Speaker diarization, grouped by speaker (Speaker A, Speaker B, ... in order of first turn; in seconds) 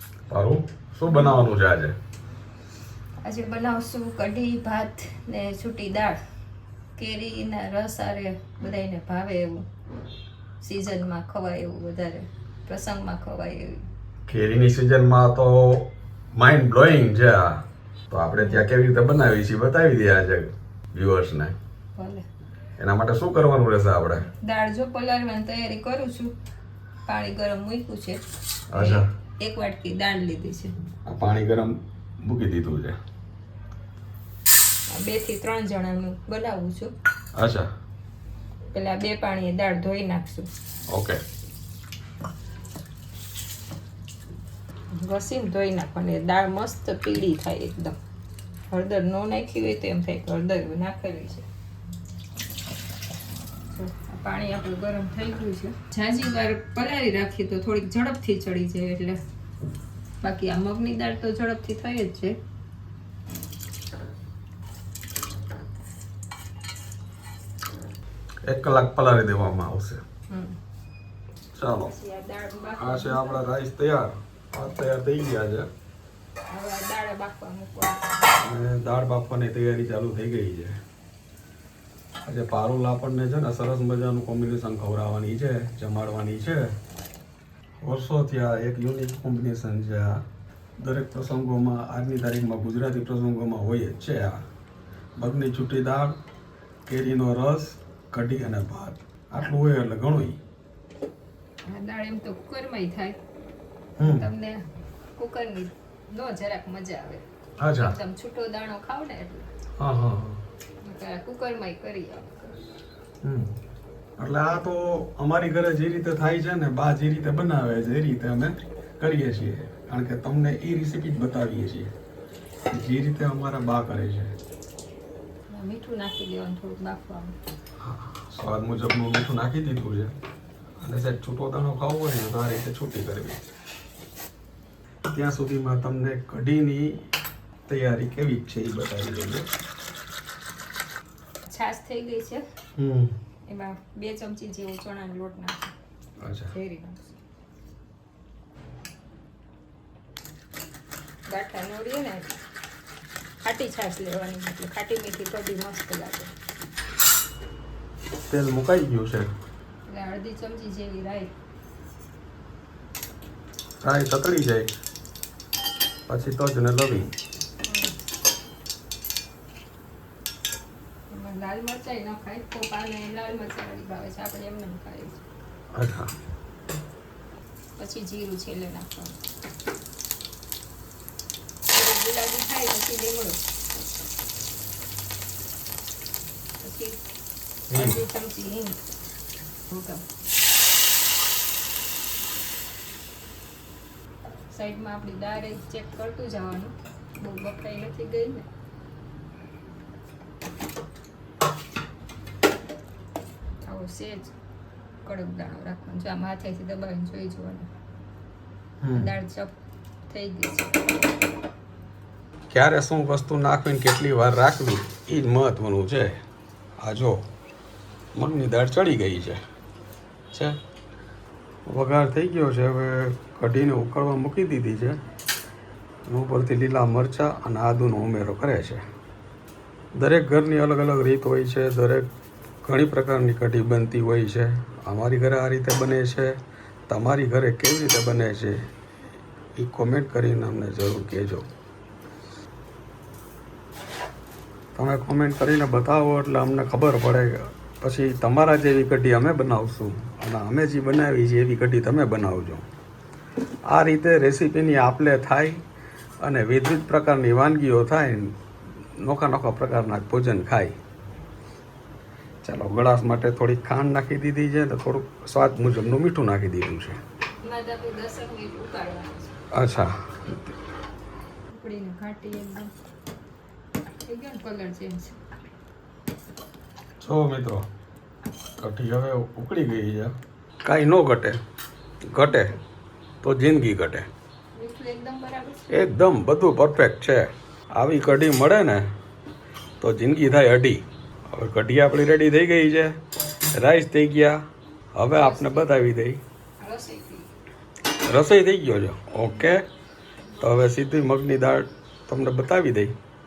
Speaker A: 0.3-2.0, 14.3-21.6, 22.8-24.3, 28.7-29.1, 31.1-33.0, 37.4-37.7, 40.9-41.2, 68.5-70.0, 71.5-71.9, 72.8-75.7, 78.4-80.8, 82.2-86.8, 87.8-90.2, 90.8-94.4, 95.2-96.2, 96.9-100.4, 104.0-104.3, 107.6-108.0, 109.8-110.4, 113.2-113.5, 114.2-121.9, 122.7-124.4, 127.8-130.1, 130.8-133.4, 135.1-137.0, 137.7-139.5, 142.8-143.1, 146.2-146.5, 158.3-159.3, 163.8-164.7, 166.1-167.1, 175.7-176.1, 187.7-188.0, 208.8-209.1, 212.5-216.2, 216.8-217.2, 218.2-219.4, 220.3-220.6, 221.7-225.0, 226.1-228.8, 229.9-232.1, 232.6-236.4, 236.9-238.7, 239.6-241.5, 244.8-252.7, 253.7-255.6, 256.2-258.4, 258.9-260.8, 262.4-267.0, 269.5-270.5, 277.0-277.6, 278.6-281.4, 282.1-282.6, 283.2-284.1, 285.7-288.9, 289.8-293.0, 293.5-294.4, 294.9-296.2, 298.0-299.6, 300.4-302.9
Speaker B: 1.1-1.4, 3.2-6.2, 7.0-9.7, 10.6-13.8, 18.4-18.7, 22.0-22.3, 24.3-26.4, 27.1-28.2, 28.8-30.7, 34.9-36.9, 38.7-40.5, 44.9-48.0, 48.7-51.5, 53.8-59.2, 60.2-62.4, 70.3-70.6, 71.9-73.5, 76.5-78.4, 101.7-103.2, 104.0-104.7, 105.2-107.2, 107.8-109.5, 110.8-112.6, 125.5-127.4, 141.5-142.4, 143.5-145.7, 146.5-147.1, 151.3-152.4, 153.4-156.3, 159.9-161.3, 167.7-167.9, 171.1-175.2, 177.8-179.2, 181.7-183.5, 186.6-187.0, 187.7-188.8, 189.7-190.0, 194.5-198.5, 203.6-204.3, 205.0-207.7, 209.0-209.6, 210.1-210.8, 267.4-269.4, 271.5-272.7, 274.0-275.2, 282.2-282.6, 284.6-285.7, 295.1-295.8, 296.6-297.3